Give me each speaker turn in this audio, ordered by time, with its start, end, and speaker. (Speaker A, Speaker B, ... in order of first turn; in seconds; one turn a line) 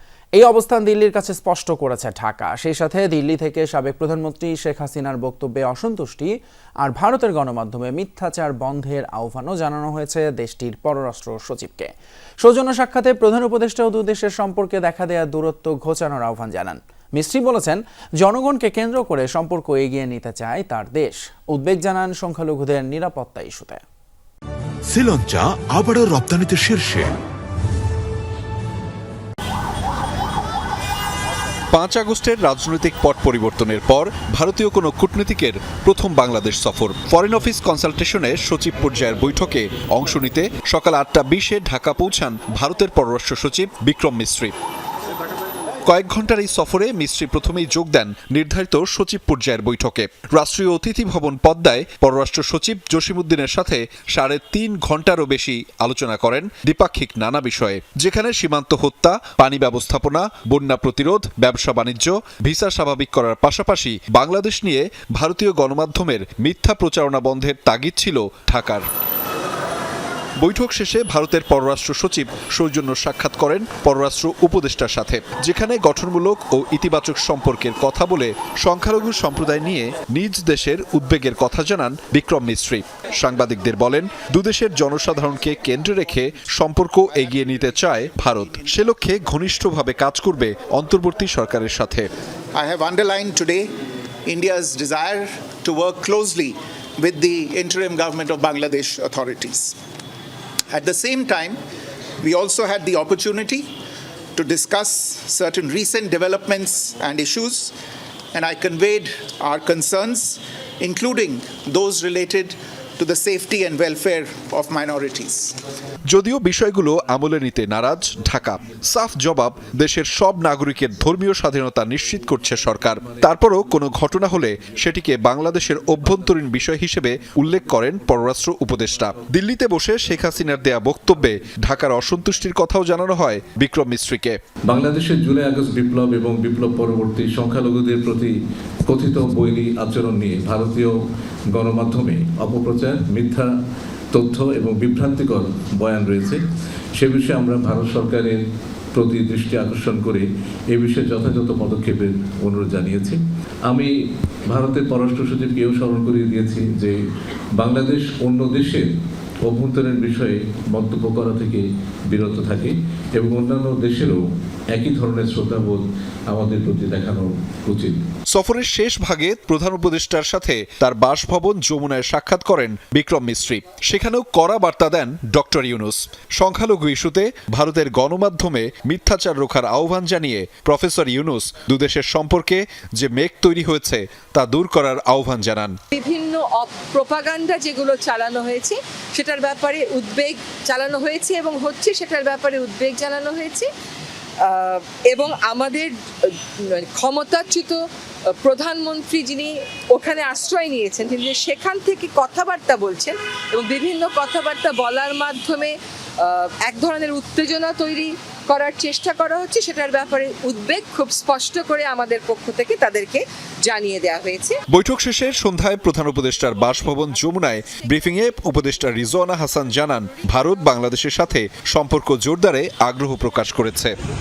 Speaker A: 0.3-23.8
Speaker B: 24.9-27.1
Speaker C: 31.7-44.5
Speaker C: 45.8-68.8
Speaker C: 70.4-92.1
Speaker D: 87.3-88.7
Speaker D: 92.5-93.7
Speaker D: 94.2-99.8
Speaker D: 100.7-101.6
Speaker D: 102.2-103.7
Speaker D: 104.3-107.7
Speaker D: 108.3-115.5
Speaker C: 116.1-134.4
Speaker E: 134.7-138.3
Speaker E: 138.8-141.0
Speaker E: 141.5-143.5
Speaker E: 144.1-146.4
Speaker E: 146.9-148.4
Speaker E: 148.9-153.9
Speaker E: 154.5-157.0
Speaker E: 157.6-158.9
Speaker E: 159.4-168.0
Speaker C: 168.3-185.8
Speaker F: 186.0-193.7
Speaker F: 194.4-195.9
Speaker F: 196.7-197.8
Speaker F: 198.4-214.6
Speaker C: 214.7-223.9